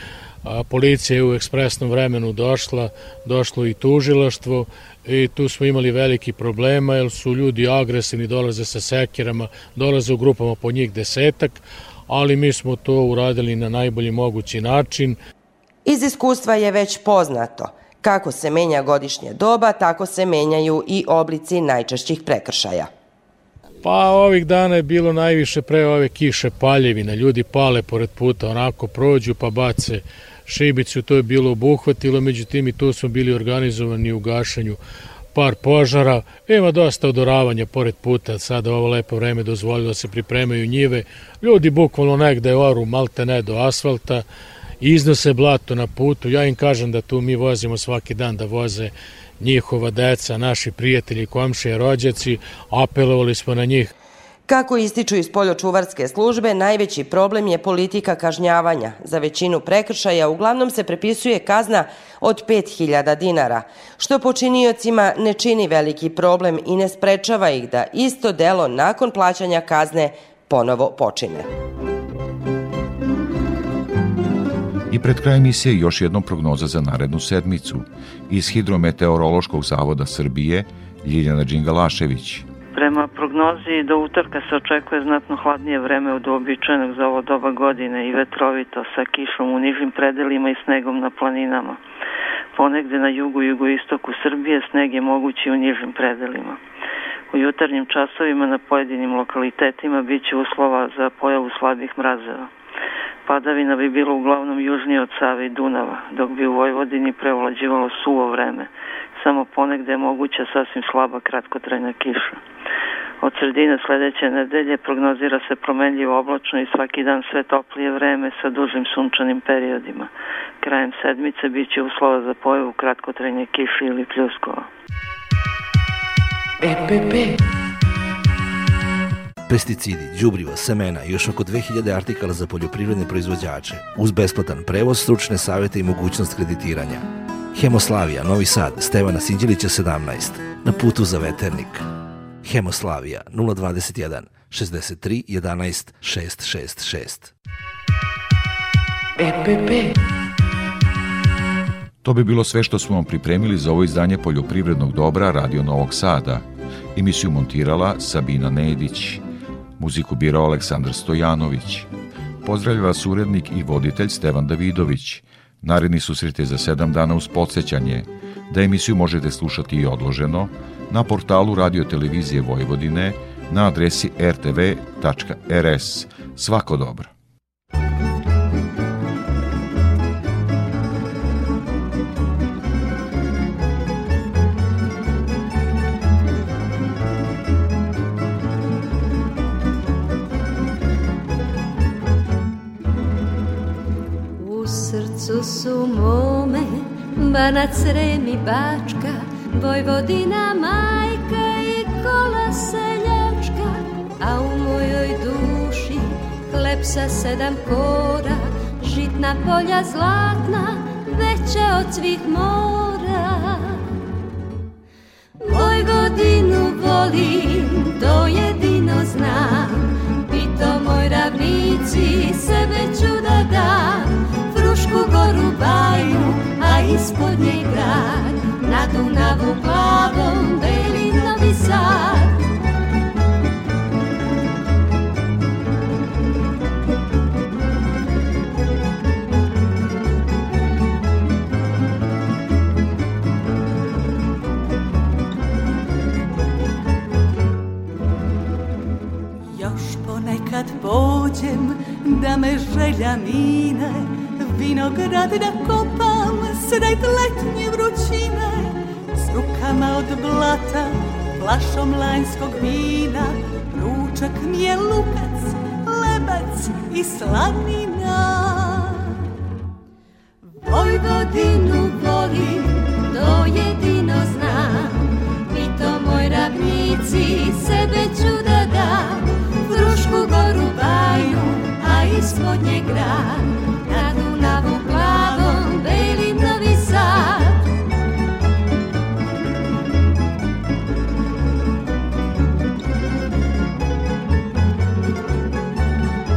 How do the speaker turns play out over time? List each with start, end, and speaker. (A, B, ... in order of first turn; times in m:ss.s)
0:00.5-0:15.2 A
0:15.9-0:22.9 B
0:23.8-0:34.8 A
0:35.3-0:44.2 A
0:44.8-0:53.9 A
0:54.5-1:11.5 B
1:14.9-1:22.5 C
1:22.7-1:31.8 D
1:32.6-1:36.6 D
1:37.3-1:42.5 D
1:43.2-1:52.4 D
1:53.2-2:00.1 D
2:00.6-2:04.7 D
2:09.5-2:21.8 E
2:22.4-2:27.3 E
2:32.0-2:39.2 C
2:39.8-2:41.9 C
2:42.4-2:57.1 C
3:14.4-3:33.8 F
3:35.4-3:45.8 F
3:44.5-3:48.1 G
3:47.1-3:52.0 F
3:49.7-3:51.3 G
4:09.5-4:29.0 G
4:30.6-4:34.9 G
4:33.6-4:34.4 F
4:35.5-4:38.7 F
4:37.2-4:37.8 G
4:38.5-4:47.4 G
4:40.1-4:40.7 F
4:44.9-4:45.9 F
4:46.5-4:47.0 F